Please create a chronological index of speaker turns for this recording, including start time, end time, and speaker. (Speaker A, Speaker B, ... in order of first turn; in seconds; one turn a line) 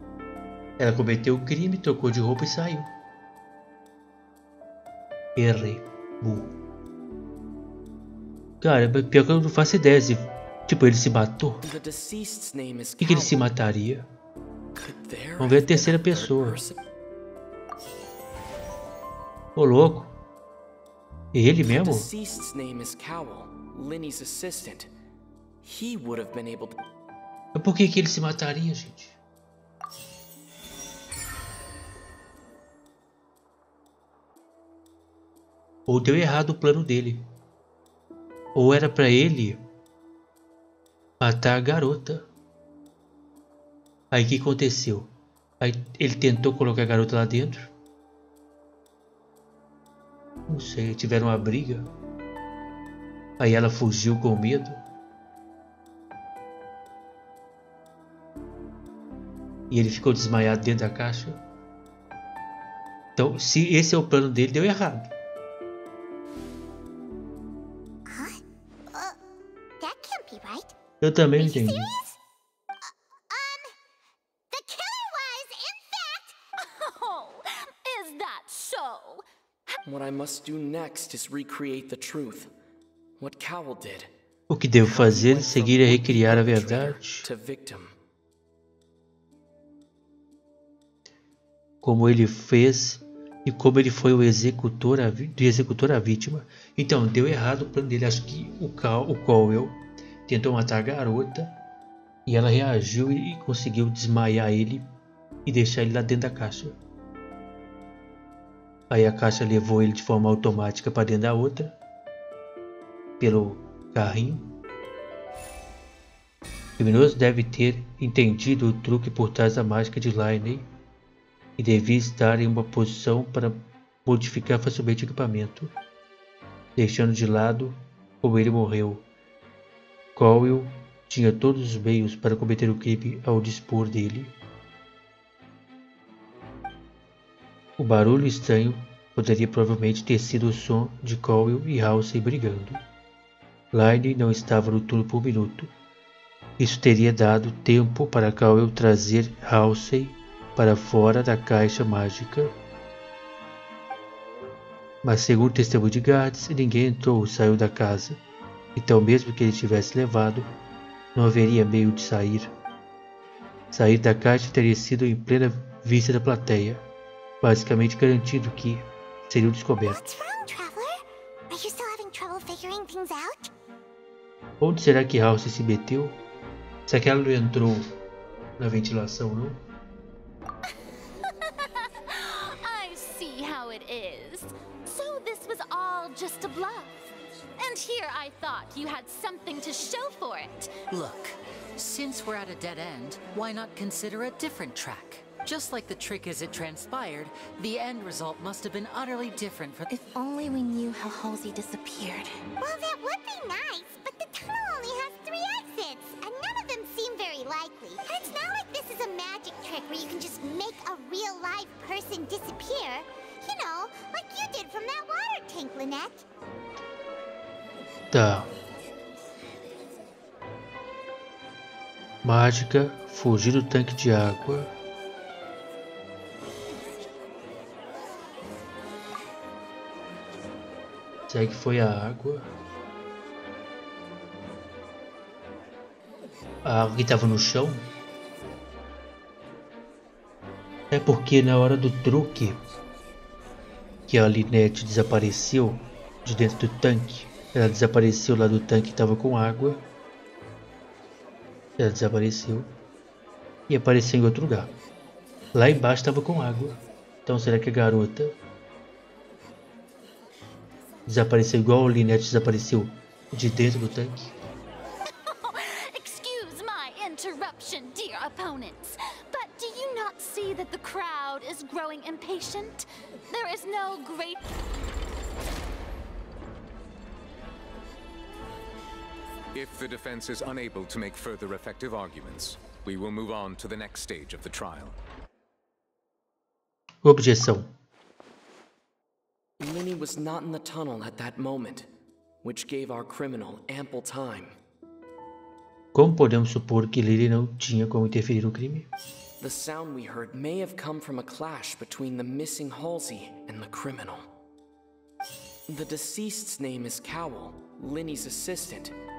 Speaker A: 0.8-2.9
Speaker A: 5.3-6.5
Speaker A: 8.6-11.6
Speaker B: 11.6-13.4
Speaker A: 13.0-14.1
Speaker B: 14.8-16.8
Speaker A: 15.4-16.6
Speaker A: 19.6-20.1
Speaker A: 21.3-22.1
Speaker B: 21.7-24.9
Speaker B: 25.6-26.8
Speaker A: 27.5-29.1
Speaker A: 35.9-37.2
Speaker A: 38.5-39.6
Speaker A: 41.2-42.2
Speaker A: 44.1-47.7
Speaker A: 50.5-51.9
Speaker A: 53.4-54.8
Speaker A: 59.7-61.4
Speaker A: 63.1-65.1
Speaker C: 68.0-69.2
Speaker C: 69.8-70.8
Speaker A: 71.0-71.9
Speaker C: 71.4-72.2
Speaker C: 72.8-73.7
Speaker C: 74.5-76.3
Speaker D: 76.6-79.8
Speaker B: 79.8-82.5
Speaker B: 83.2-84.1
Speaker A: 84.5-87.2
Speaker B: 84.8-87.9
Speaker A: 91.8-101.5
Speaker A: 102.2-104.8
Speaker A: 105.5-106.8
Speaker A: 108.9-111.7
Speaker A: 113.2-114.5
Speaker A: 116.8-120.7
Speaker A: 121.6-125.7
Speaker A: 126.8-129.0
Speaker A: 130.2-134.3
Speaker A: 137.8-142.8
Speaker A: 143.7-145.7
Speaker A: 146.6-152.5
Speaker A: 155.0-158.2
Speaker A: 158.8-160.5
Speaker A: 161.1-162.5
Speaker A: 163.7-166.8
Speaker A: 167.4-170.0
Speaker C: 169.8-173.5
Speaker A: 174.6-176.2
Speaker A: 176.9-177.9
Speaker A: 178.6-179.6
Speaker D: 181.2-186.9
Speaker D: 187.6-190.7
Speaker E: 190.9-199.9
Speaker F: 199.9-202.4
Speaker C: 202.6-216.2
Speaker A: 218.1-218.5
Speaker A: 222.2-224.7
Speaker A: 231.3-232.5
Speaker A: 236.6-237.9
Speaker A: 240.9-242.6
Speaker A: 244.1-249.8
Speaker A: 251.8-252.7
Speaker A: 253.7-254.7
Speaker A: 255.5-258.3
Speaker A: 261.1-264.3
Speaker D: 265.2-274.5
Speaker G: 279.5-284.9
Speaker A: 287.0-287.7
Speaker B: 289.6-291.9
Speaker B: 292.4-294.5
Speaker A: 295.9-298.9
Speaker B: 299.4-304.3
Speaker B: 305.7-308.9